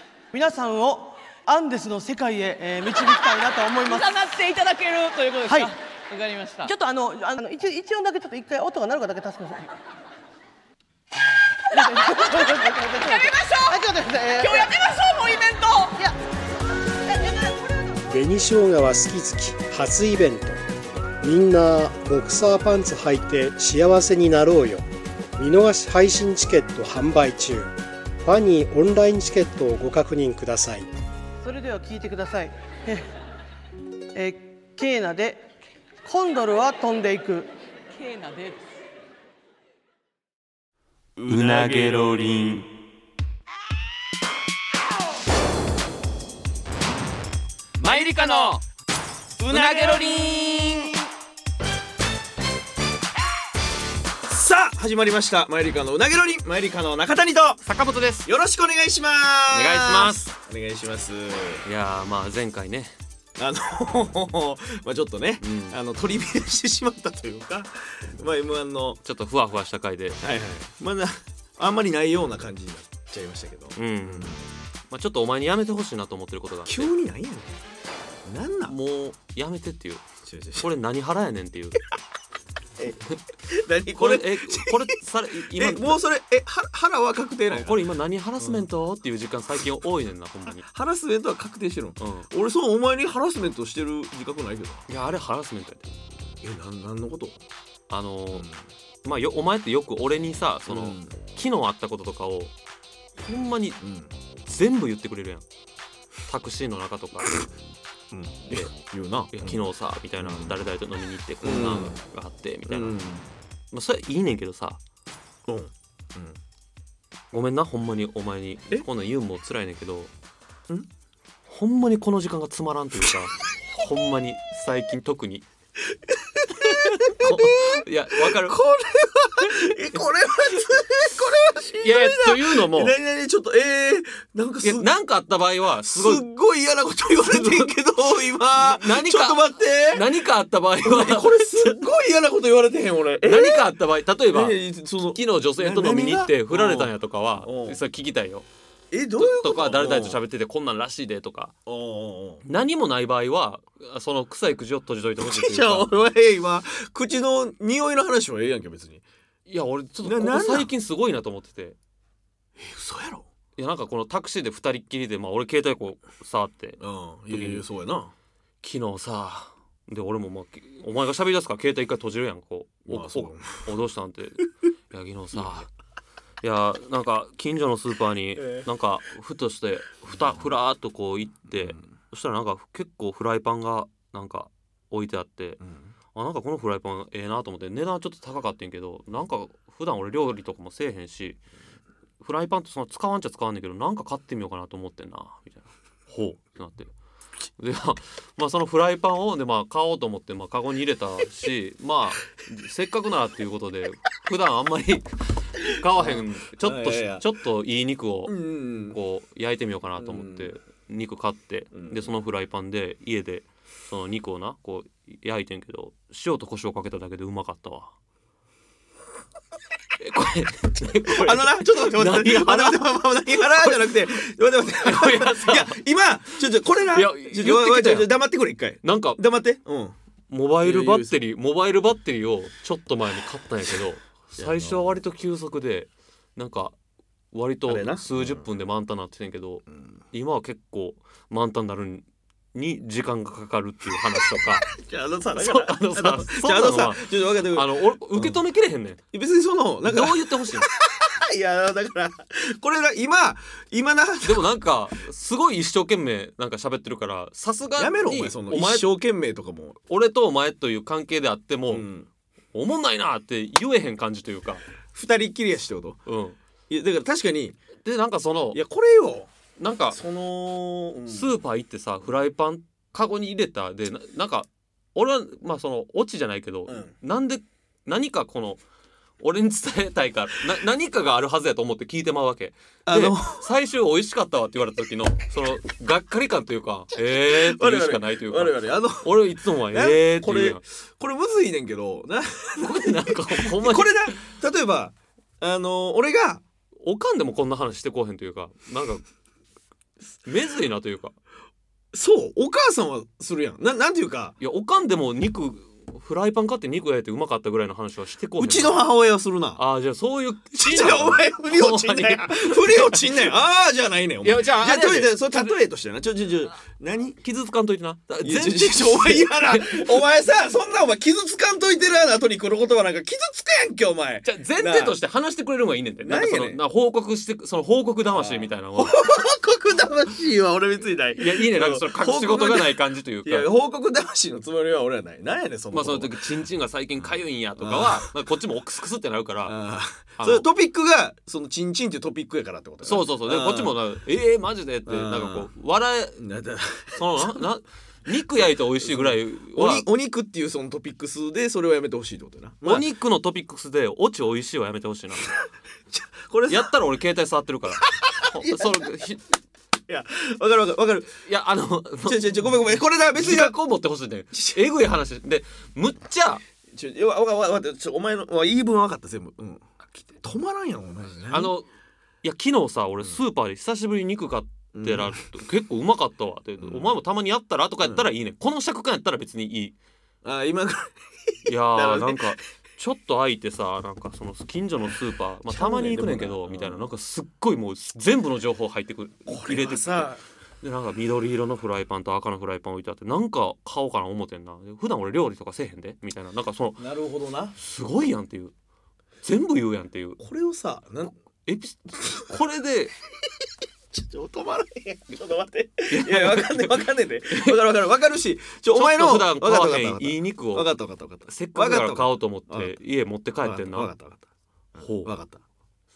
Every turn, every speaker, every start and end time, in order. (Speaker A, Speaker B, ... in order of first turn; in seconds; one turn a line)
Speaker A: 0.3-4.2
Speaker B: 3.8-6.7
Speaker A: 5.5-5.7
Speaker A: 6.7-9.7
Speaker B: 11.7-13.8
Speaker A: 11.7-14.7
Speaker B: 14.4-16.0
Speaker C: 18.1-20.6
Speaker C: 21.2-24.9
Speaker C: 25.4-30.9
Speaker A: 31.4-33.1
Speaker A: 34.1-35.5
Speaker A: 36.0-37.5
Speaker B: 37.9-38.7
Speaker D: 41.2-42.1
Speaker E: 41.2-42.7
Speaker E: 47.8-48.6
Speaker D: 49.4-51.0
Speaker E: 49.5-50.9
Speaker D: 54.2-57.6
Speaker E: 57.7-58.3
Speaker D: 58.2-61.6
Speaker E: 59.5-60.3
Speaker E: 61.6-62.9
Speaker D: 63.4-69.0
Speaker E: 65.4-65.8
Speaker E: 69.0-70.2
Speaker D: 70.2-74.5
Speaker E: 73.8-74.4
Speaker E: 74.9-76.9
Speaker D: 76.7-77.5
Speaker D: 78.2-78.8
Speaker E: 78.7-80.0
Speaker D: 80.3-80.7
Speaker E: 80.6-81.8
Speaker D: 82.8-87.8
Speaker E: 83.9-86.0
Speaker E: 87.5-90.7
Speaker D: 88.4-88.7
Speaker D: 90.6-94.9
Speaker E: 92.0-92.3
Speaker E: 94.9-95.9
Speaker D: 96.4-97.4
Speaker E: 97.9-98.5
Speaker D: 98.3-98.6
Speaker E: 99.0-102.5
Speaker D: 100.7-101.2
Speaker E: 103.2-103.8
Speaker D: 103.8-104.1
Speaker E: 104.5-105.5
Speaker E: 106.3-107.4
Speaker D: 108.1-109.6
Speaker E: 109.3-113.0
Speaker D: 110.2-110.6
Speaker D: 111.4-112.0
Speaker D: 112.7-113.3
Speaker E: 113.7-114.8
Speaker D: 115.5-116.4
Speaker E: 117.3-120.1
Speaker E: 121.5-125.5
Speaker D: 126.1-134.9
Speaker E: 126.6-128.6
Speaker E: 131.8-133.0
Speaker E: 134.6-136.2
Speaker D: 135.9-140.2
Speaker E: 137.2-137.7
Speaker E: 138.5-141.8
Speaker D: 140.8-143.8
Speaker E: 143.2-144.6
Speaker D: 144.3-147.8
Speaker E: 145.2-148.5
Speaker D: 148.9-150.2
Speaker E: 149.2-151.5
Speaker D: 151.7-152.4
Speaker E: 152.4-155.9
Speaker D: 155.2-159.0
Speaker E: 159.5-161.8
Speaker D: 160.0-160.7
Speaker D: 162.6-163.3
Speaker E: 163.6-167.7
Speaker D: 166.8-168.1
Speaker E: 168.6-175.7
Speaker D: 172.9-173.7
Speaker E: 176.4-185.6
Speaker D: 178.4-178.7
Speaker D: 181.5-181.8
Speaker D: 185.6-185.9
Speaker E: 186.1-191.4
Speaker E: 192.2-196.9
Speaker E: 197.6-217.9
Speaker D: 205.6-207.3
Speaker D: 208.3-209.0
Speaker D: 210.0-210.5
Speaker D: 211.7-212.1
Speaker E: 220.0-223.9
Speaker D: 220.9-229.9
Speaker E: 224.8-225.8
Speaker E: 226.8-228.1
Speaker E: 228.8-229.2
Speaker E: 230.3-236.8
Speaker D: 230.6-231.2
Speaker D: 234.4-235.0
Speaker E: 237.3-244.7
Speaker D: 237.7-238.5
Speaker D: 239.7-240.0
Speaker D: 244.2-248.4
Speaker E: 245.3-249.0
Speaker D: 249.1-254.5
Speaker E: 249.8-250.7
Speaker E: 254.2-258.9
Speaker D: 257.8-259.8
Speaker E: 259.9-261.9
Speaker D: 261.7-262.1
Speaker E: 262.5-264.6
Speaker D: 264.9-266.0
Speaker E: 266.1-266.4
Speaker D: 266.7-267.6
Speaker E: 267.8-268.6
Speaker D: 268.5-269.3
Speaker E: 269.6-270.0
Speaker D: 269.9-271.4
Speaker E: 271.1-278.6
Speaker D: 276.7-276.9
Speaker E: 279.2-290.6
Speaker D: 282.9-283.5
Speaker D: 287.0-296.4
Speaker E: 292.6-294.2
Speaker E: 296.8-299.0
Speaker E: 300.2-301.2
Speaker D: 301.9-304.4
Speaker E: 304.4-308.8
Speaker D: 308.4-309.6
Speaker E: 309.6-313.3
Speaker D: 310.6-317.3
Speaker E: 314.2-315.6
Speaker E: 317.2-320.0
Speaker D: 318.2-325.0
Speaker E: 324.2-329.0
Speaker D: 326.0-326.6
Speaker D: 328.1-332.7
Speaker E: 331.2-333.5
Speaker D: 333.2-336.2
Speaker E: 335.7-339.6
Speaker D: 337.6-338.1
Speaker D: 339.4-343.8
Speaker E: 340.2-340.5
Speaker E: 342.8-346.2
Speaker D: 344.9-345.5
Speaker D: 346.2-347.4
Speaker E: 347.0-349.9
Speaker D: 348.8-352.9
Speaker E: 352.6-355.4
Speaker D: 355.9-356.7
Speaker E: 356.5-359.3
Speaker D: 358.0-358.8
Speaker D: 359.9-361.1
Speaker E: 361.2-362.6
Speaker D: 362.1-363.6
Speaker E: 363.1-366.4
Speaker D: 366.7-371.6
Speaker E: 371.3-371.7
Speaker E: 372.2-379.8
Speaker D: 374.7-375.2
Speaker D: 376.6-376.9
Speaker D: 377.8-378.1
Speaker D: 380.2-380.9
Speaker E: 381.4-390.1
Speaker D: 381.7-382.2
Speaker D: 385.5-386.9
Speaker D: 389.3-390.2
Speaker E: 390.6-396.9
Speaker D: 396.8-397.6
Speaker E: 397.6-398.5
Speaker E: 399.2-400.2
Speaker D: 400.2-401.1
Speaker E: 401.1-402.9
Speaker D: 403.9-412.8
Speaker E: 405.9-407.6
Speaker E: 408.7-410.7
Speaker E: 411.3-413.9
Speaker D: 413.4-415.4
Speaker E: 414.8-415.1